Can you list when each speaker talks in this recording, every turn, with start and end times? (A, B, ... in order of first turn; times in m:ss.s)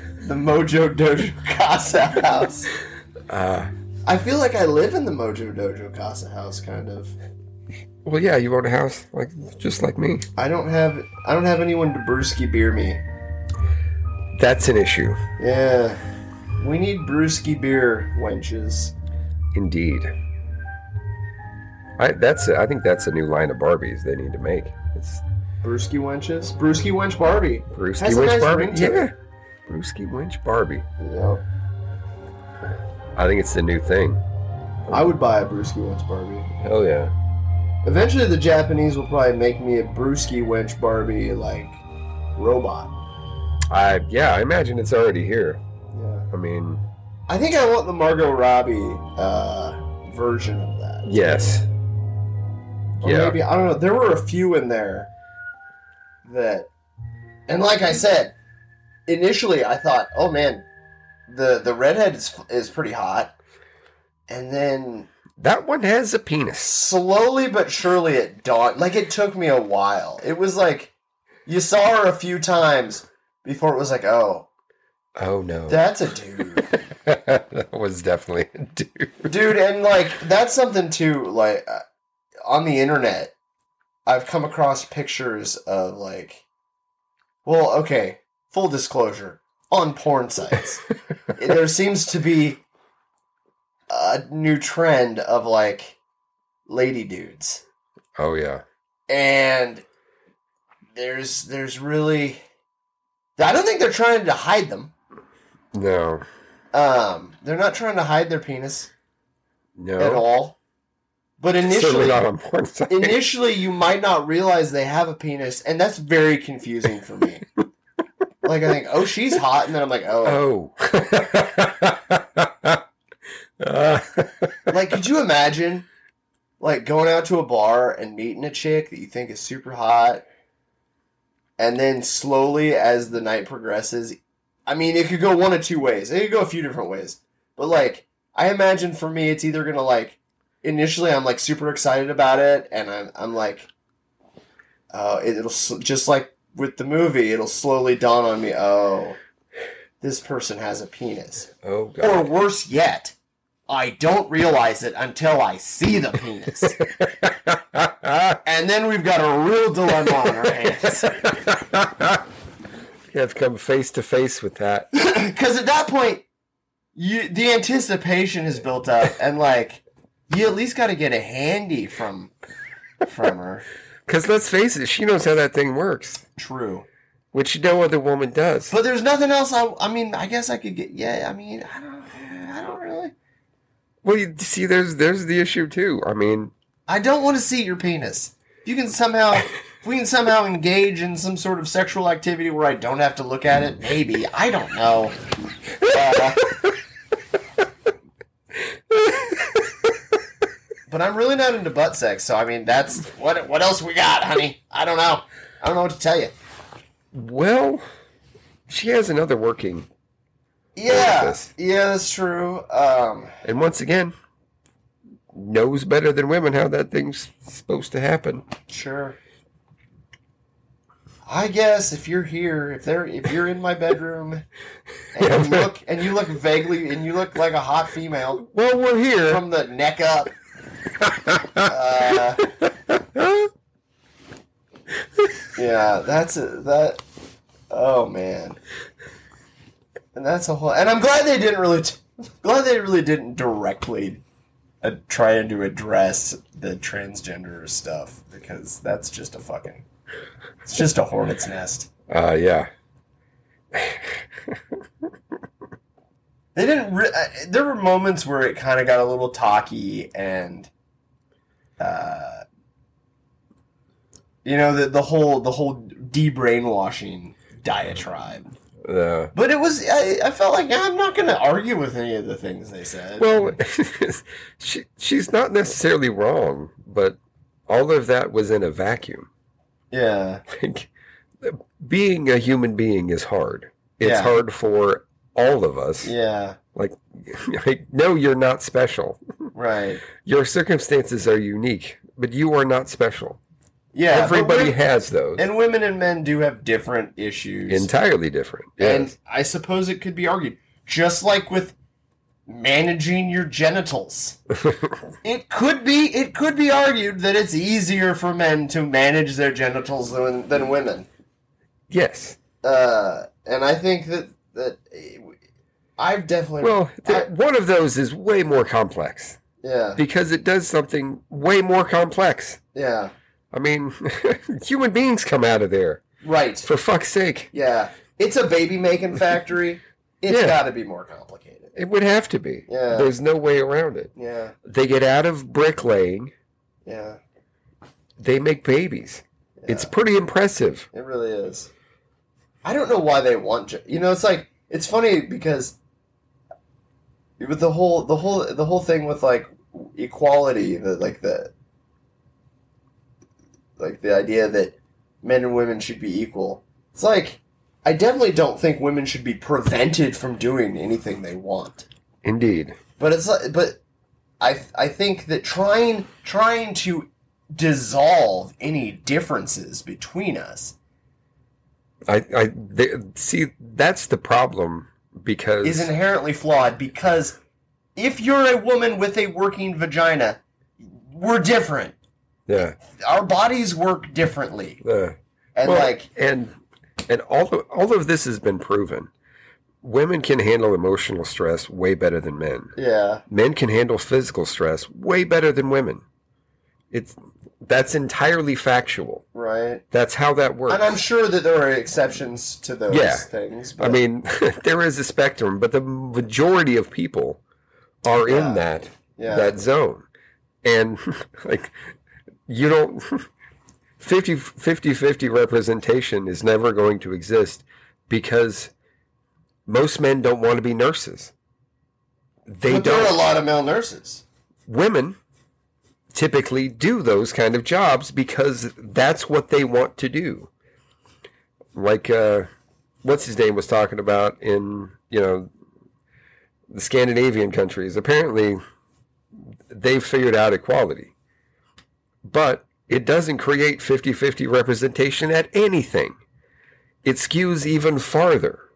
0:00.2-0:02.7 A
0:03.3-0:03.7 B
0:04.0-0:07.1 A
0:08.0-0:10.3 B
0:10.4-0:13.0 A
0:14.3-0:15.2 B
0:15.4-0:16.0 A
0:16.6-0:18.9 A
0:19.5-0:20.1 B
0:22.0-0:25.2 B
0:25.6-0:29.1 A
0:27.7-0:29.1 B
0:29.7-0:30.8 B
0:31.0-0:31.4 A
0:33.2-0:34.2 B
0:34.9-0:36.5 A
0:36.6-0:37.1 B
0:37.8-0:41.8 A
0:42.4-0:42.9 A
0:43.7-0:45.6 B
0:45.9-0:46.3 A
0:46.3-0:46.8 B
0:47.3-0:51.1 A
0:51.0-0:51.7 B
0:53.0-0:55.1 A
0:53.0-0:53.4 B
0:56.2-0:56.7 A
0:57.5-0:58.3 A
0:59.1-1:00.6 A
1:01.3-1:03.3 A
1:04.3-1:05.1 A
1:05.4-1:06.8 B
1:06.6-1:10.9 A
1:11.4-1:14.5 A
1:15.2-1:15.9 B
1:15.7-1:16.7 A
1:16.6-1:19.4 B
1:19.3-1:21.8 A
1:22.4-1:23.3 A
1:24.0-1:26.4 A
1:27.4-1:30.8 A
1:31.3-1:32.6 A
1:33.9-1:36.0 A
1:36.7-1:37.6 A
1:38.2-1:38.6 B
1:39.1-1:39.8 A
1:40.9-1:42.4 A
1:43.4-1:44.9 A
1:45.7-1:46.2 B
1:46.7-1:48.9 A
1:49.8-1:50.2 B
1:50.0-1:50.6 A
1:51.4-1:52.2 A
1:51.6-1:53.2 B
1:52.9-1:57.5 A
1:58.4-2:00.4 A
2:00.2-2:02.8 B
2:03.6-2:04.7 B
2:04.7-2:05.9 A
2:06.6-2:10.2 A
2:11.6-2:23.7 A
2:24.9-2:29.2 A
2:30.0-2:33.1 A
2:31.6-2:32.3 B
2:33.7-2:36.8 A
2:37.0-2:38.4 B
2:38.4-2:41.4 A
2:40.1-2:40.5 B
2:41.0-2:42.2 B
2:43.1-2:44.9 B
2:44.9-2:46.2 A
2:46.9-2:52.3 A
2:53.0-2:53.6 A
2:54.1-2:56.2 B
2:56.4-2:56.8 A
2:57.3-2:58.7 B
2:58.7-3:03.1 A
3:04.0-3:06.5 B
3:06.9-3:15.2 A
3:15.8-3:16.6 A
3:18.9-3:19.8 B
3:20.9-3:26.3 A
3:27.1-3:27.8 B
3:28.7-3:29.9 B
3:30.8-3:33.3 A
3:30.9-3:31.5 B
3:33.4-3:34.1 B
3:35.3-3:38.4 B
3:38.7-3:39.2 A
3:41.2-3:44.4 A
3:45.1-3:48.4 A
3:45.2-3:45.7 B
3:48.4-3:49.4 B
3:49.2-3:50.3 A
3:51.2-3:51.6 B
3:51.6-3:52.5 A
3:52.9-3:53.5 B
3:55.5-3:57.0 A
3:57.7-3:58.6 A
4:00.1-4:04.2 A
4:04.8-4:09.8 A
4:10.6-4:11.9 A
4:12.1-4:12.7 B
4:13.7-4:14.6 B
4:16.5-4:20.7 A
4:21.8-4:22.4 A
4:24.4-4:28.5 A
4:28.8-4:29.3 B
4:29.3-4:33.5 A
4:33.2-4:37.2 B
4:37.7-4:39.3 B
4:39.9-4:40.4 A
4:40.5-4:40.9 B
4:41.4-4:46.1 B
4:44.0-4:44.4 A
4:46.0-4:46.6 A
4:46.7-4:49.2 B
4:49.5-4:50.0 A
4:50.2-4:53.4 B
4:53.9-4:54.8 A
4:54.1-4:55.4 B
4:55.4-4:57.9 A
4:57.7-4:59.1 B
4:58.8-5:01.8 A
5:02.5-5:04.4 A
5:05.2-5:11.1 A
5:11.9-5:12.4 B
5:12.6-5:15.3 A
5:16.0-5:17.3 A
5:16.6-5:19.4 B
5:19.6-5:20.0 A
5:20.0-5:22.6 B
5:22.7-5:23.1 A
5:23.5-5:26.0 B
5:26.2-5:26.7 A
5:26.6-5:27.5 B
5:27.5-5:31.8 A
5:30.3-5:30.6 B
5:31.8-5:34.1 B
5:32.7-5:33.1 A
5:34.2-5:34.5 A
5:34.6-5:36.3 B
5:36.8-5:37.2 A
5:38.2-5:40.9 B
5:39.6-5:39.9 A
5:40.9-5:41.7 A
5:42.6-5:45.8 A
5:47.4-5:51.5 A
5:53.8-6:01.8 A
6:02.2-6:02.8 B
6:03.0-6:03.8 A
6:04.4-6:10.7 A
6:12.1-6:15.9 B
6:15.6-6:17.4 A
6:18.0-6:21.9 A
6:22.5-6:22.8 B
6:22.9-6:24.8 A
6:24.8-6:26.6 B
6:25.5-6:26.1 A
6:27.1-6:29.1 B
6:29.8-6:32.7 B
6:32.8-6:33.2 A
6:33.3-6:36.0 B
6:36.9-6:39.2 B
6:39.3-6:39.8 A
6:39.9-6:41.0 B
6:40.7-6:44.0 A
6:42.9-6:47.4 B
6:48.0-6:50.0 B
6:48.3-6:48.6 A
6:49.2-6:49.6 A
6:50.6-6:51.8 B
6:52.5-6:53.3 B
6:54.0-6:58.7 B
6:59.6-7:01.3 B
7:02.5-7:03.2 B
7:02.7-7:04.2 A
7:04.7-7:05.2 B
7:06.1-7:10.5 B
7:11.7-7:12.5 B
7:13.0-7:15.5 B
7:16.7-7:18.6 B
7:19.7-7:21.1 B
7:22.2-7:26.2 B
7:27.0-7:28.6 B